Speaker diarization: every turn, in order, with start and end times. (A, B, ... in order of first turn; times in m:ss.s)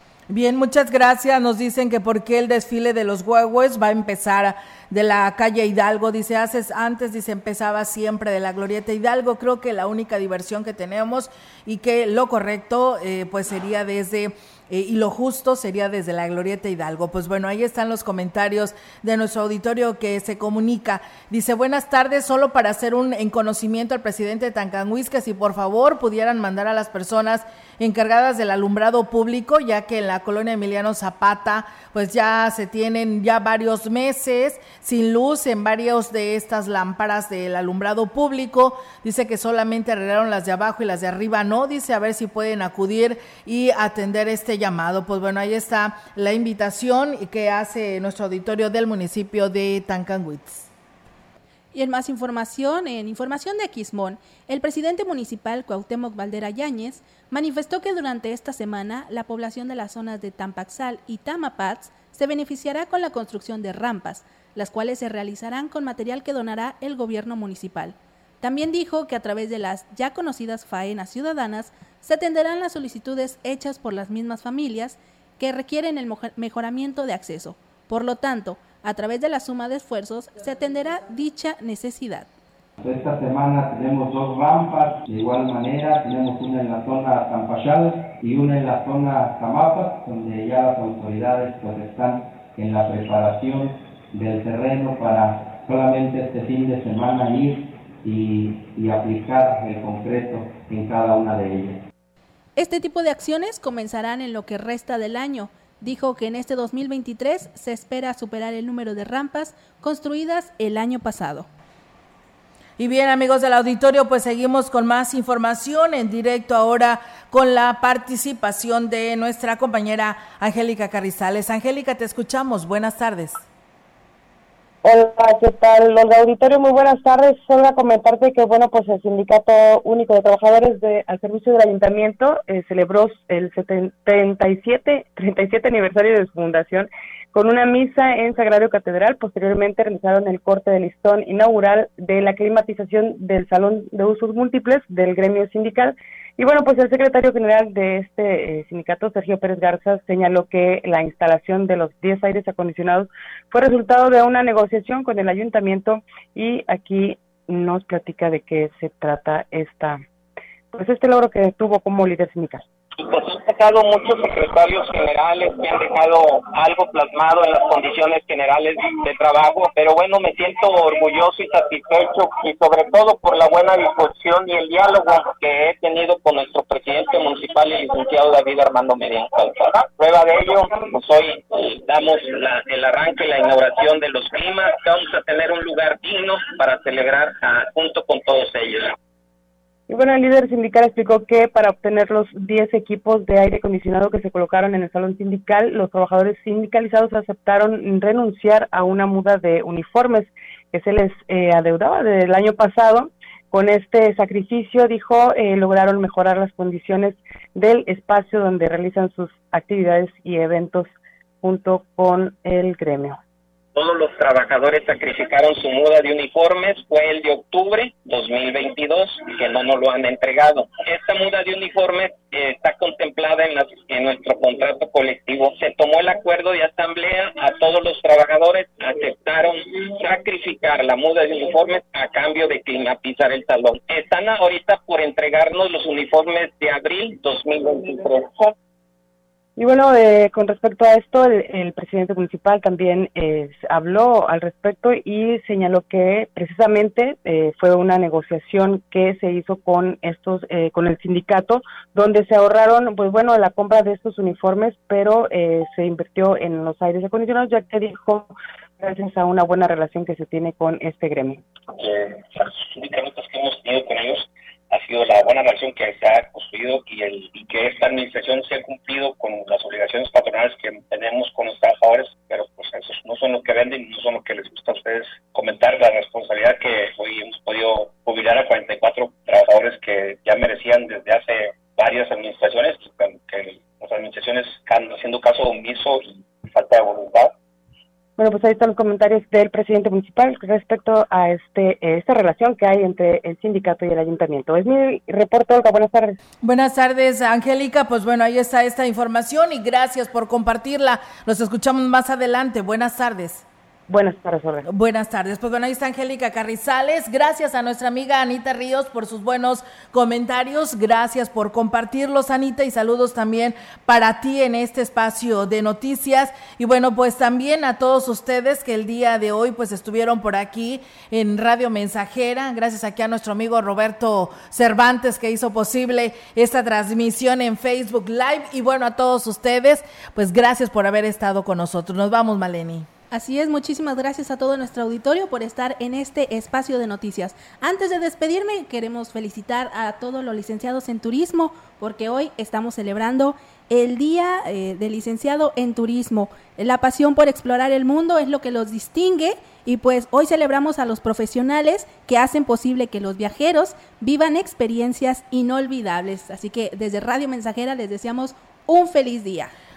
0:00.3-0:50.7 A
0:51.7-1:22.3 B
1:22.8-1:41.8 C
1:42.6-1:51.5 B
1:52.8-2:03.4 A
2:04.8-2:40.0 D
2:40.7-2:42.6 D
2:43.0-3:08.9 E
3:09.9-3:30.9 D
3:31.4-3:33.2 D
3:33.8-3:58.5 E
3:59.6-4:21.4 D
4:21.8-4:47.3 E
4:48.2-4:56.2 D
4:56.4-5:03.4 A
5:03.9-5:04.6 D
5:04.6-5:32.9 A
5:33.1-5:59.5 B